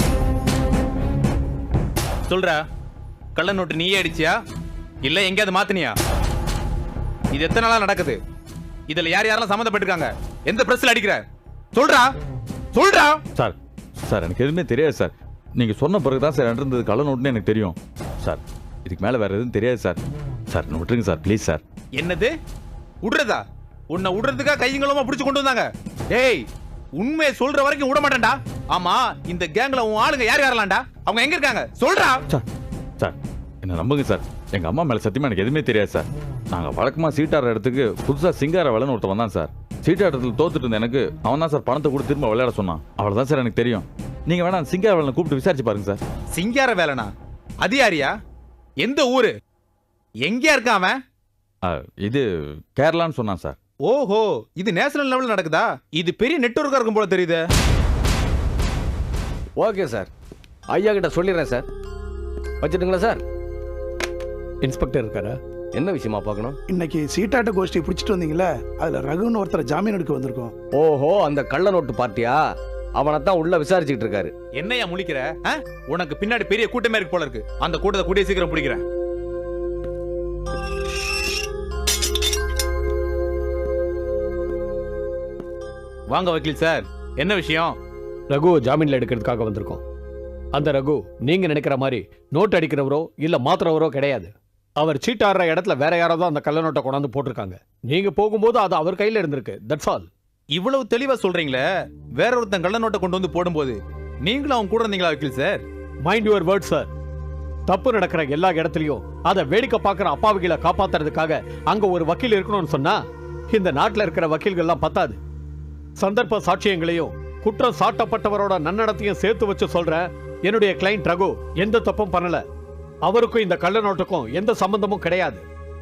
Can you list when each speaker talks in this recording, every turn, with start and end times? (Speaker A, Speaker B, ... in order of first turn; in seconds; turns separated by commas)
Speaker A: 2.3-2.6, Speaker A: 3.4-4.3, Speaker A: 5.0-6.0, Speaker A: 7.3-8.2, Speaker A: 8.9-12.1, Speaker A: 12.7-13.2, Speaker B: 13.3-20.0, Speaker B: 20.5-21.6, Speaker A: 22.0-22.3, Speaker A: 23.0-26.5, Speaker A: 27.0-32.2, Speaker B: 33.0-46.0, Speaker A: 46.3-48.1, Speaker A: 48.8-49.3, Speaker A: 50.2-51.0, Speaker B: 51.6-53.6, Speaker A: 53.8-57.5, Speaker C: 59.6-60.1, Speaker C: 60.7-61.6, Speaker C: 62.6-63.2, Speaker D: 64.6-65.4, Speaker C: 65.8-66.6, Speaker E: 66.7-70.5, Speaker C: 70.8-72.4, Speaker C: 73.0-74.3, Speaker A: 74.6-78.8, Speaker A: 86.1-87.8, Speaker D: 88.3-89.8, Speaker D: 90.5-100.1, Speaker A: 100.5-101.7, Speaker A: 102.2-105.6, Speaker D: 106.0-106.9, Speaker D: 107.7-113.0, Speaker D: 113.5-115.2, Speaker D: 116.0-122.4, Speaker D: 123.0-125.4